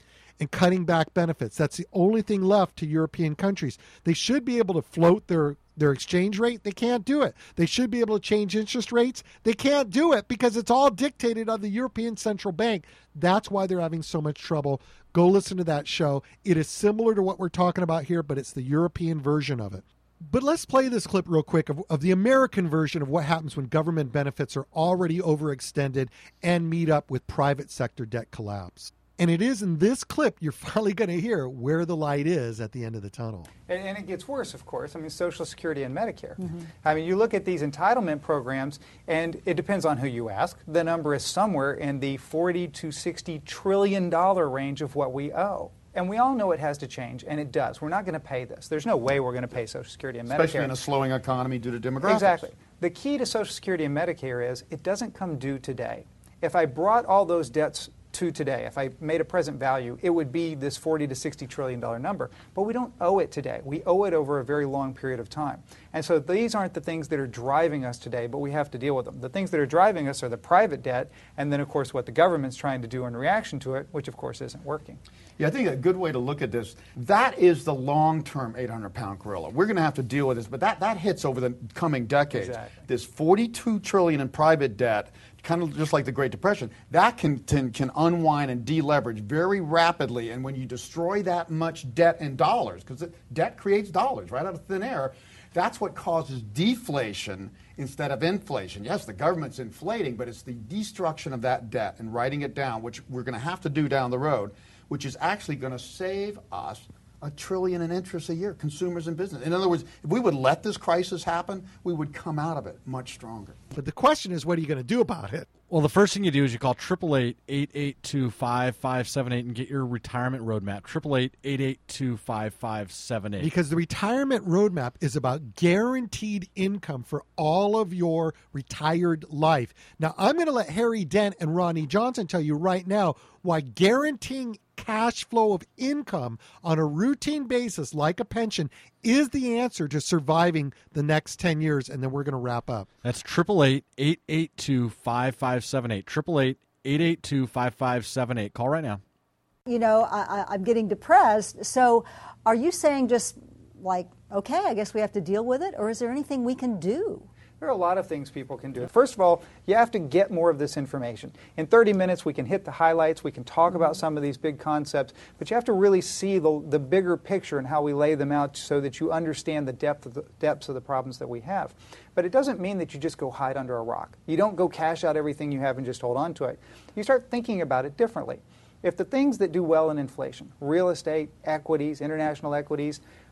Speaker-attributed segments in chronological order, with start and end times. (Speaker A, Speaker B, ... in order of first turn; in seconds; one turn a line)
Speaker A: 0.4-33.5
Speaker B: 33.7-50.7
Speaker C: 50.3-52.4
Speaker B: 52.0-75.0
Speaker C: 75.4-113.6
Speaker B: 82.3-82.8
Speaker A: 113.7-115.5
Speaker D: 115.7-123.5
Speaker A: 123.4-142.9
Speaker D: 143.0-149.0
Speaker E: 149.7-157.3
Speaker B: 157.6-183.0